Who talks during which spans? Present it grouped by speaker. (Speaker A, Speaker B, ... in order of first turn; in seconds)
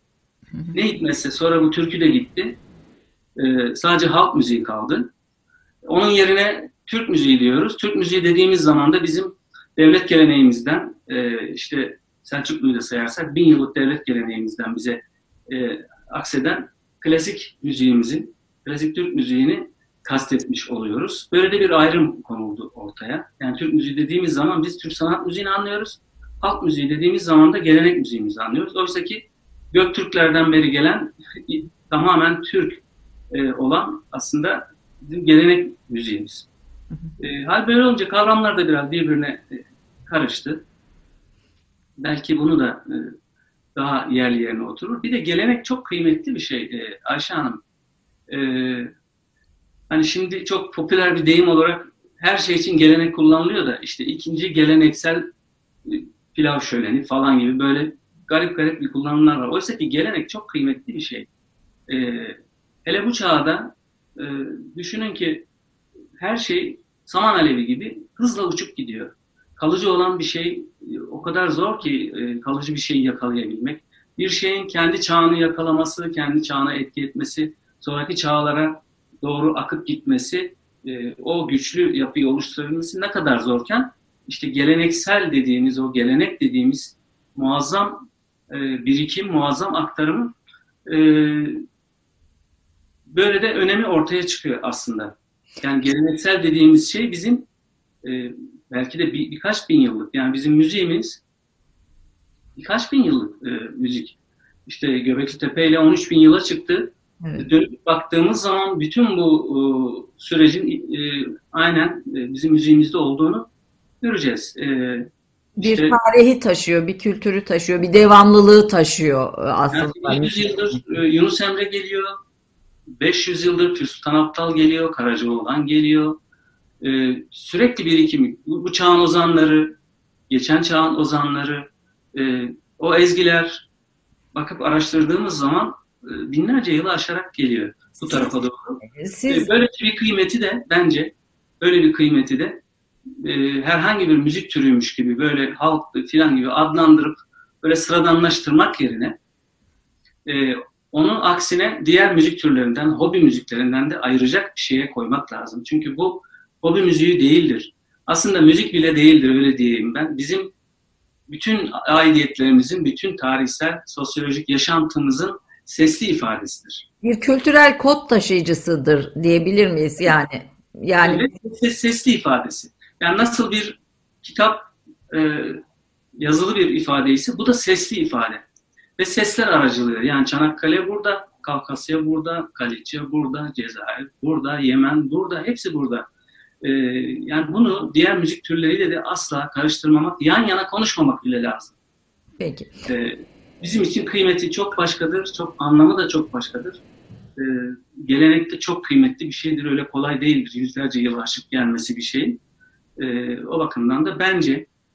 Speaker A: 0.5-0.9, 115.6-120.5, 138.0-138.3, 138.9-139.5, 167.0-171.3, 192.4-192.7
Speaker B: 0.7-2.6, 3.4-5.1, 5.8-36.5, 37.2-40.6, 42.0-43.1, 43.8-47.6, 48.3-48.9, 49.9-55.2, 55.9-61.3, 61.9-65.5, 66.2-90.3, 90.9-91.6, 93.1-97.5, 98.0-101.2, 102.6-113.5, 114.0-115.1, 115.6-116.0, 119.7-122.2, 123.0-126.2, 126.8-129.8, 130.3-133.7, 134.3-142.6, 143.2-149.2, 150.3-160.5, 161.3-166.9, 171.0-175.6, 176.2-178.4, 179.0-186.1, 186.6-191.8, 192.8-196.8, 197.4-202.4, 203.0-204.7